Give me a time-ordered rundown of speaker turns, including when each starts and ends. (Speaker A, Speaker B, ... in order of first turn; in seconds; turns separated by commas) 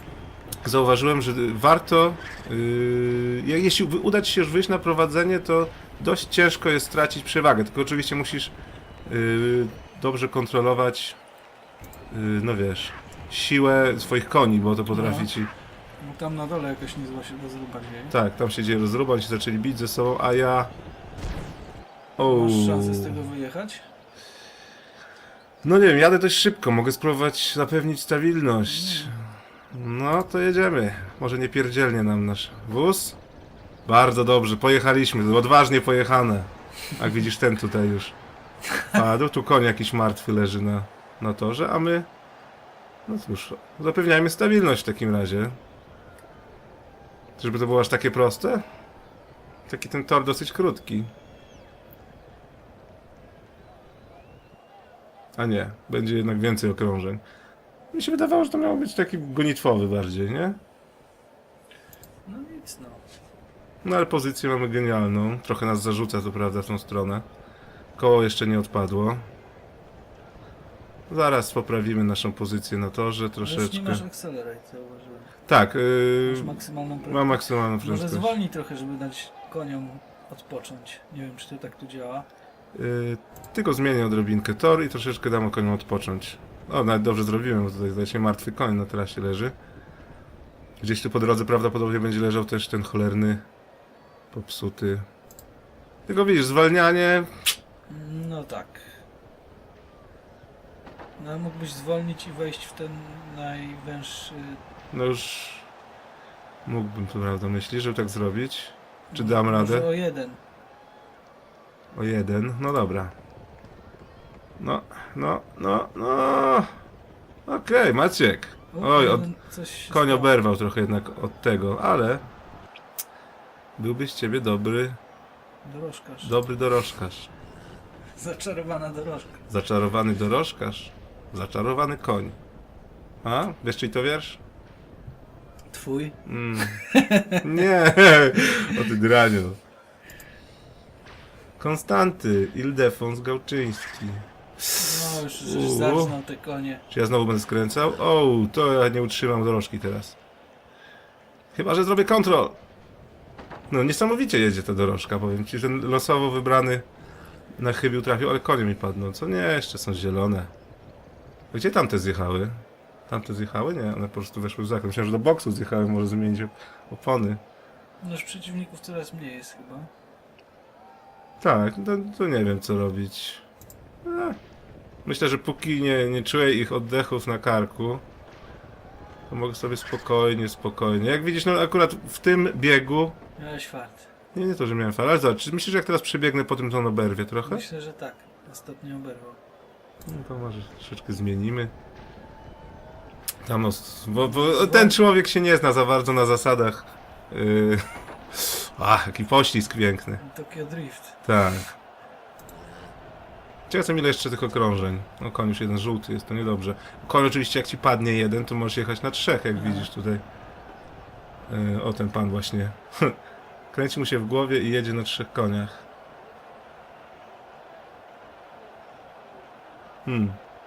Speaker A: 0.6-8.6, Speaker A: 9.1-11.2, Speaker A: 12.1-15.5, Speaker B: 14.9-15.3, Speaker B: 16.0-18.1, Speaker A: 18.1-20.7, Speaker A: 22.2-23.2, Speaker B: 22.2-23.8, Speaker A: 25.6-29.1, Speaker B: 28.7-29.1, Speaker A: 29.7-33.2, Speaker A: 33.9-38.2, Speaker A: 38.9-42.1, Speaker A: 43.1-45.6, Speaker A: 47.4-48.6, Speaker A: 49.7-51.1, Speaker A: 55.4-57.2, Speaker A: 57.9-60.6, Speaker B: 62.3-63.0, Speaker A: 63.8-67.3, Speaker A: 68.0-69.2, Speaker A: 71.1-74.0, Speaker B: 73.4-75.3, Speaker A: 75.5-78.3, Speaker B: 76.3-82.3, Speaker A: 82.7-89.5, Speaker A: 90.8-93.5, Speaker A: 94.3-95.1, Speaker A: 96.1-97.3, Speaker B: 97.9-98.9, Speaker B: 101.2-104.6, Speaker A: 104.9-105.7, Speaker A: 106.7-109.9, Speaker B: 109.1-110.4, Speaker A: 111.9-113.1, Speaker A: 114.6-116.7, Speaker A: 117.5-119.3, Speaker B: 118.7-120.3, Speaker A: 119.9-122.2, Speaker A: 123.8-125.0, Speaker B: 125.6-126.3, Speaker A: 126.2-127.3, Speaker B: 128.2-129.4, Speaker A: 129.5-132.4, Speaker A: 133.2-134.4, Speaker B: 135.7-137.6, Speaker A: 136.3-136.8, Speaker A: 137.4-139.6, Speaker A: 141.6-146.1, Speaker B: 144.8-146.8, Speaker A: 146.9-150.2, Speaker A: 151.5-152.6, Speaker A: 153.7-156.8, Speaker A: 157.6-160.5, Speaker A: 161.5-167.4, Speaker B: 168.0-169.9, Speaker A: 171.4-173.4, Speaker A: 174.1-174.4, Speaker A: 175.1-178.0, Speaker A: 179.3-183.2, Speaker B: 183.4-184.1, Speaker A: 184.3-187.7, Speaker B: 187.4-189.4, Speaker A: 190.1-191.7, Speaker A: 193.4-200.2, Speaker B: 194.2-195.0, Speaker B: 200.2-201.2, Speaker A: 201.2-201.7, Speaker A: 203.7-210.2, Speaker B: 209.6-209.9, Speaker A: 211.5-213.2, Speaker A: 213.7-215.8, Speaker A: 220.1-220.4